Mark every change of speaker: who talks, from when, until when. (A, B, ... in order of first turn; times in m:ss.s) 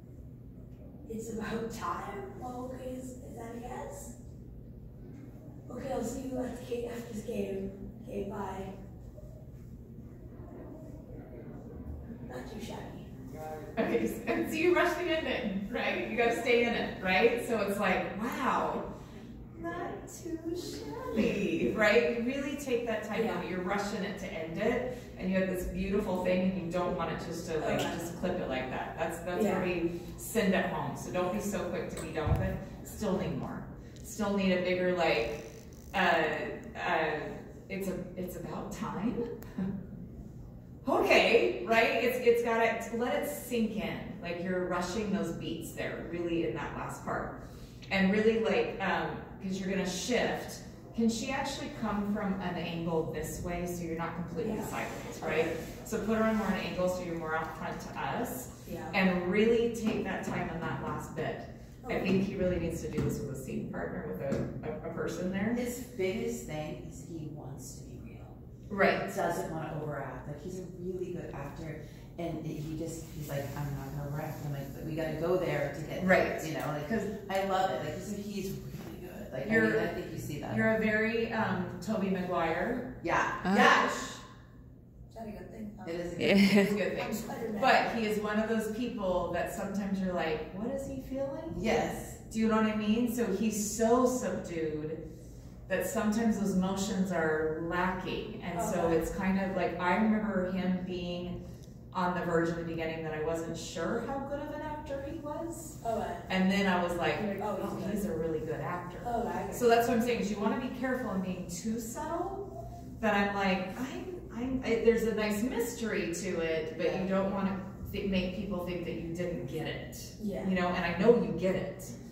0:01.1-0:04.2 A
0:05.7-0:08.7 A
0:12.3-0:13.1 A
0:13.8-0:18.9 B
0:19.5-0:35.4 B
0:23.1-0:23.5 A
0:27.6-0:28.0 A
0:29.3-0:29.7 A
0:35.9-0:39.7 B
0:40.8-0:47.4 B
0:47.9-1:05.6 B
0:54.4-0:55.5 A
0:58.7-0:59.0 A
1:01.8-1:02.2 A
1:05.5-1:08.4 C
1:08.7-1:09.2 B
1:09.0-1:20.7 C
1:16.0-1:16.5 B
1:19.4-1:19.9 B
1:20.5-1:22.9 B
1:23.0-1:23.9 C
1:23.4-1:24.2 B
1:25.1-1:26.2 A
1:25.8-1:26.8 C
1:26.2-1:31.6 B
1:26.9-1:28.0 A
1:31.5-1:32.2 C
1:32.3-1:35.0 B
1:35.7-1:41.4 B
1:38.5-1:39.0 A
1:41.9-1:52.5 B
1:45.8-1:46.3 A
1:47.2-1:48.0 A
1:49.0-1:49.7 A
1:53.0-2:01.9 B
1:56.8-1:57.1 C
2:00.2-2:00.6 A